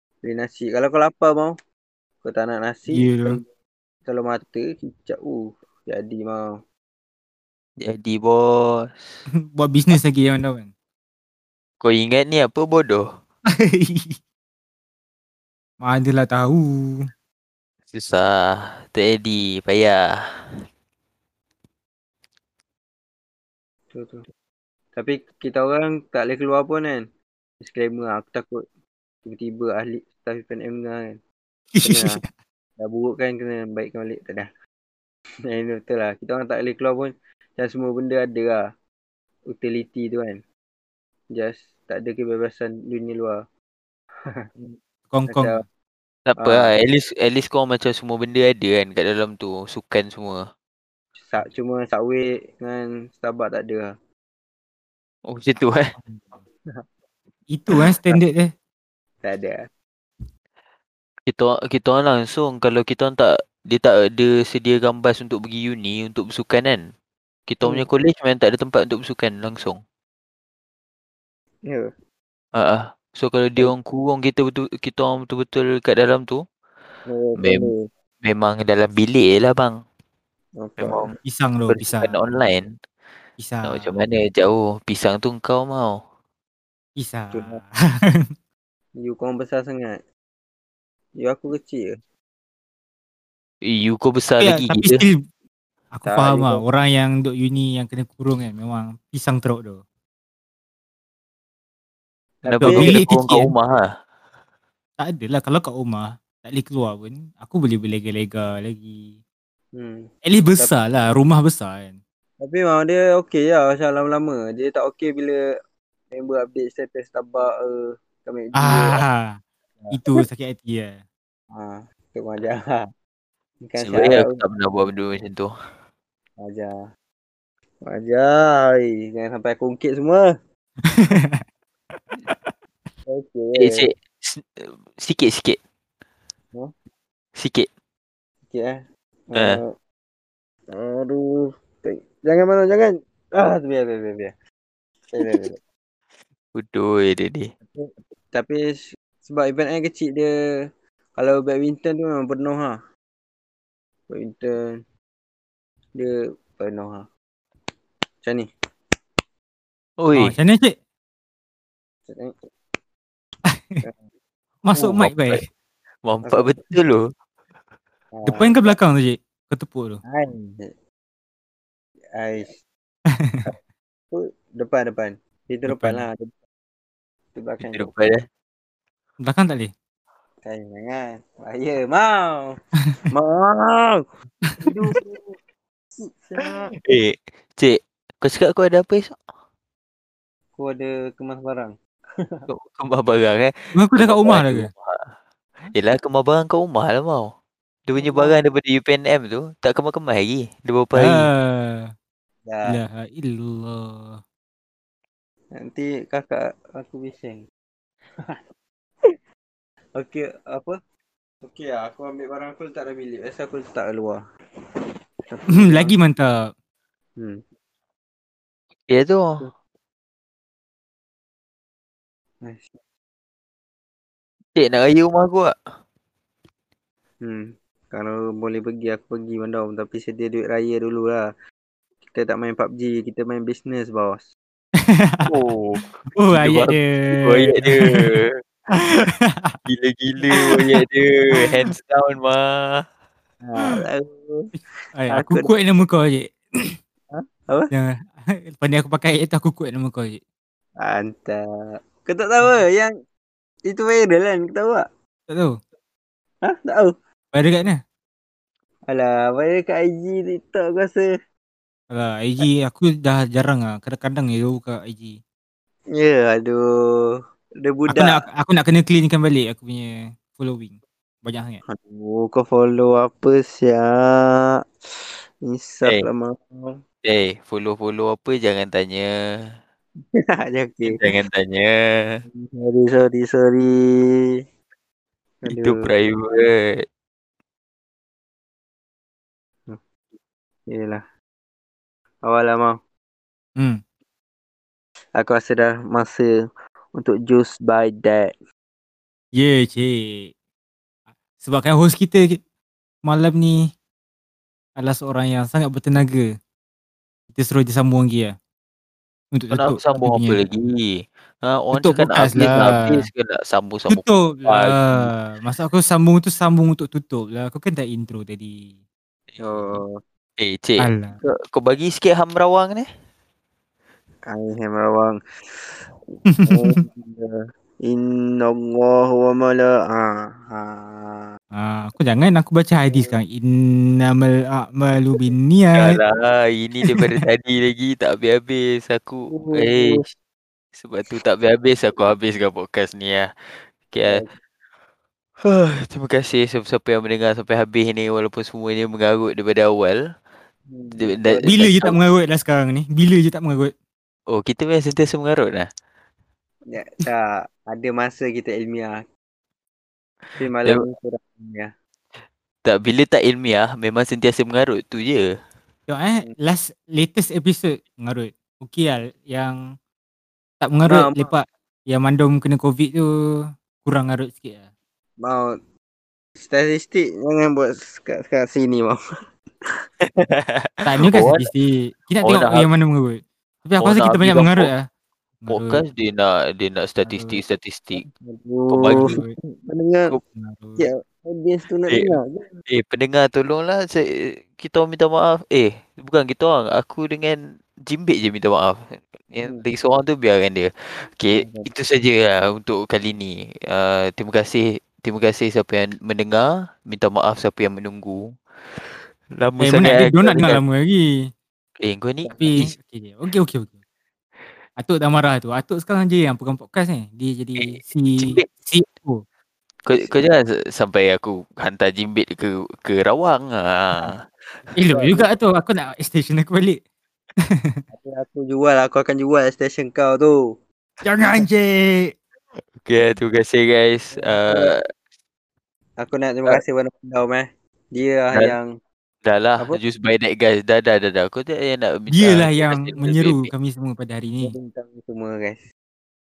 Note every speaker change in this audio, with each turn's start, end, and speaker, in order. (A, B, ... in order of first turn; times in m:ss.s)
0:00.2-0:01.5 A
0:02.2-0:03.4 A
0:02.9-0:03.4 B
0:04.0-0:06.5 A
0:07.8-0:09.2 C
0:09.5-0:10.7 B
0:11.8-0:13.0 C
0:13.5-0:14.2 B
0:15.8-0:17.0 B
0:17.9-0:20.0 C
0:23.9-0:24.2 A
0:24.9-0:27.0 A
0:27.6-0:28.6 A
0:29.2-0:31.2 A
0:31.7-0:32.3 B
0:31.8-0:32.2 A
0:32.8-0:34.5 A
0:35.5-0:38.6 A
0:39.5-0:40.4 A
0:41.3-0:43.4 A
0:44.3-0:44.7 A
0:45.1-0:45.6 B
0:45.3-0:45.6 A
0:46.3-0:50.5 C
0:46.4-0:46.7 A
0:51.2-0:53.9 A
0:55.3-0:55.9 C
0:57.5-0:58.5 B
0:59.2-0:59.6 A
1:01.3-1:06.8 C
1:07.5-1:09.8 C
1:12.6-1:16.4 C
1:17.1-1:17.8 A
1:17.4-1:17.7 C
1:18.2-1:19.7 C
1:20.6-1:21.1 A
1:20.8-1:21.1 C
1:21.2-1:22.1 B
1:21.7-1:22.7 C
1:23.4-1:23.9 B
1:23.7-1:26.0 C
1:27.0-1:28.2 B
1:27.3-1:27.6 A
1:29.0-1:30.0 A
1:31.2-1:32.0 A
1:33.6-1:35.0 C
1:34.4-1:35.2 B
1:35.9-1:39.8 B
1:36.0-1:36.6 A
1:42.4-1:42.9 A
1:42.5-1:43.8 C
1:42.6-1:43.5 B
1:45.0-1:49.1 B
1:49.7-1:50.7 A
1:50.2-1:52.0 B
1:52.4-1:55.4 A
1:56.1-1:59.0 A
1:58.5-1:59.4 B
1:59.9-2:01.0 B
2:01.5-2:02.8 A
2:03.6-2:04.4 A
2:03.8-2:05.5 C
2:06.4-2:06.7 A
2:07.8-2:10.3 A
2:10.9-2:11.4 B
2:13.1-2:13.9 A
2:13.6-2:15.6 C
2:17.4-2:17.7 C
2:18.5-2:19.7 A
2:20.7-2:24.3 A
2:25.1-2:25.6 A
2:26.5-2:27.5 C
2:27.7-2:30.3 A
2:31.2-2:32.8 A
2:34.1-2:34.8 A
2:36.0-2:37.1 A
2:38.2-2:38.5 A
2:40.0-2:40.3 C
2:40.1-2:40.8 B
2:42.1-2:42.4 A
2:43.5-2:43.8 B
2:44.6-2:45.4 B
2:45.0-2:45.4 C
2:46.0-2:47.0 C
2:46.3-2:46.5 A
2:48.1-2:48.8 A
2:48.2-2:50.0 B
2:50.1-2:50.7 A
2:52.1-2:52.6 A
2:53.1-2:53.4 B
2:54.1-2:56.3 A
2:55.6-2:56.0 B
2:57.3-2:57.9 A
2:57.6-2:58.2 C
2:59.2-2:59.7 B
3:00.4-3:02.6 A
3:03.1-3:04.0 A
3:04.4-3:04.7 B
3:04.6-3:05.4 A
3:06.0-3:06.7 A
3:06.8-3:09.2 C
3:10.6-3:12.4 A
3:12.5-3:15.0 C
3:13.7-3:14.7 B
3:15.7-3:17.3 C
3:17.9-3:21.3 C
3:18.0-3:18.4 A
3:21.0-3:21.9 B
3:22.4-3:22.8 A
3:22.6-3:24.2 B
3:25.5-3:27.4 A
3:30.0-3:30.8 A
3:31.4-3:34.2 A
3:35.3-3:36.0 A
3:35.5-3:36.3 B
3:37.2-3:37.4 A
3:38.9-3:39.3 C
3:44.6-3:45.5 C
3:47.2-3:51.2 A
3:52.1-3:54.3 A
3:54.8-3:55.3 B
3:55.3-3:58.4 C
3:56.1-3:58.2 B
3:58.7-3:59.6 B
3:59.7-4:02.8 C
4:00.3-4:00.8 B
4:03.4-4:04.5 A
4:04.9-4:06.7 B
4:05.1-4:05.5 A
4:07.1-4:07.7 A
4:07.7-4:10.2 B
4:10.8-4:11.4 A
4:12.0-4:12.9 A
4:13.7-4:14.8 A
4:16.4-4:16.9 A
4:17.3-4:17.8 B
4:18.9-4:21.1 A
4:21.9-4:25.2 B
4:26.0-4:27.0 A
4:27.6-4:28.2 A
4:27.9-4:31.6 B
4:31.7-4:34.6 A
4:35.4-4:36.8 A
4:37.0-4:39.5 C
4:40.0-4:41.1 A
4:40.8-4:42.2 C
4:42.3-4:44.4 A
4:45.4-4:45.9 A
4:45.5-4:46.8 C
4:50.7-4:51.0 A
4:52.2-4:52.8 A
4:55.2-4:56.3 A
4:57.0-4:58.3 A
4:59.4-5:00.3 B
5:01.4-5:02.4 B
5:03.0-5:03.6 B
5:04.8-5:06.3 B
5:07.4-5:08.3 B
5:09.3-5:10.4 B
5:09.5-5:15.1 C
5:11.7-5:13.1 B
5:13.9-5:18.7 B
5:19.3-5:19.8 C
5:19.4-5:20.0 A
5:20.4-5:22.8 C
5:20.8-5:21.2 B
5:24.3-5:25.2 A
5:26.3-5:26.8 B
5:26.4-5:31.3 A
5:31.5-5:36.0 B
5:32.9-5:33.2 A
5:35.8-5:40.1 C
5:36.8-5:37.1 B
5:39.3-5:40.0 A
5:40.8-5:43.3 C
5:43.9-5:44.2 C
5:45.4-5:50.0 C
5:50.7-5:51.5 A
5:51.0-5:51.9 C
5:51.4-5:53.7 B
5:54.3-5:55.7 C
5:56.7-5:59.0 A
6:00.3-6:00.8 C
6:00.4-6:01.7 A
6:02.6-6:05.3 C
6:05.9-6:09.6 B
6:10.6-6:13.1 B
6:10.8-6:11.3 A
6:13.8-6:14.6 B
6:15.2-6:15.6 A
6:16.4-6:19.0 A
6:20.0-6:21.5 C
6:20.8-6:24.8 B
6:22.2-6:22.7 C
6:23.8-6:24.7 C
6:25.4-6:25.8 B
6:25.5-6:28.0 C
6:27.0-6:27.4 B
6:28.0-6:30.1 A
6:28.7-6:29.2 C
6:29.0-6:29.4 B
6:30.3-6:30.8 B
6:30.8-6:32.6 A
6:31.9-6:48.2 C
6:41.3-6:41.7 A
6:49.4-6:50.6 C
6:49.6-6:51.0 B
6:51.8-6:52.7 C
6:52.3-6:53.7 B
6:54.8-6:59.2 B
6:57.6-6:58.4 C
6:59.8-7:04.2 C
6:59.9-7:00.3 A
7:04.7-7:06.8 B
7:04.9-7:05.2 A
7:07.9-7:10.4 A
7:11.0-7:12.1 B
7:12.8-7:14.8 C
7:14.2-7:14.7 A
7:16.0-7:18.7 A
7:19.2-7:23.5 C
7:22.1-7:24.5 B
7:24.4-7:25.6 A